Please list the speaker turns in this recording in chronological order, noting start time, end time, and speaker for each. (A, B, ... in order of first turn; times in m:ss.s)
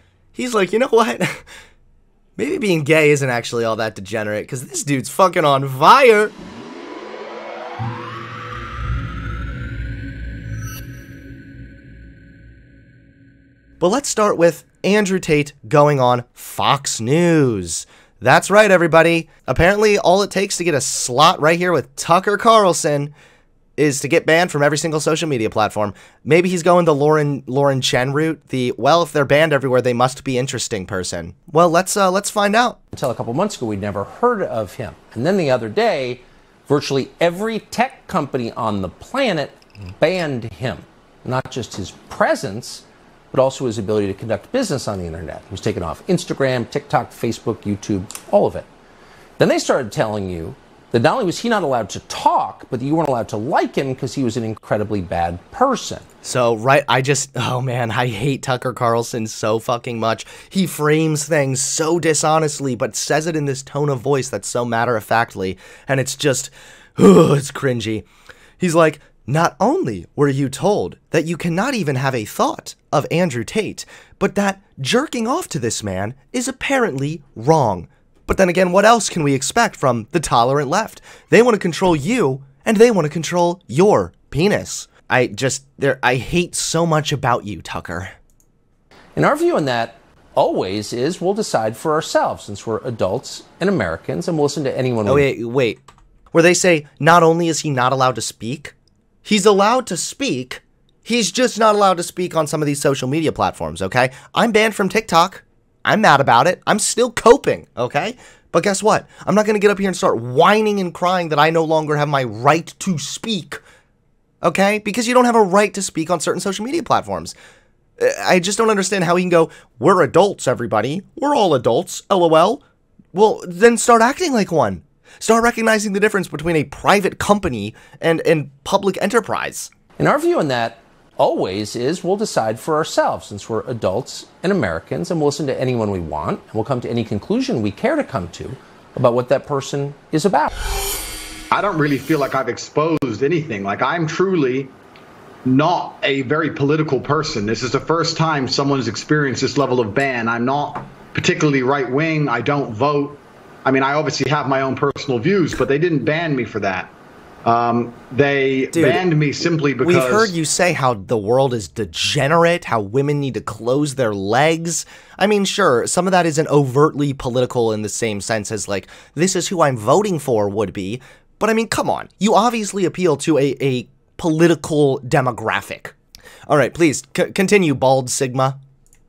0:00.3-0:01.5 A
0:02.4-0:06.3 A
0:13.8-0:23.1 A
0:23.8-0:32.8 A
0:32.9-0:48.7 B
0:49.4-0:56.0 B
0:56.2-1:08.0 A
1:08.6-1:28.1 A
1:29.2-1:35.3 B
1:35.0-1:35.8 A
1:36.3-1:38.7 A
1:39.2-1:53.6 A
1:54.4-1:57.3 A
1:58.0-2:09.7 A
2:10.0-2:20.5 B
2:21.5-2:24.7 C
2:25.4-2:36.9 C
2:37.4-2:40.3 C
2:38.7-2:39.0 A
2:39.8-2:55.9 A
2:56.5-2:58.6 A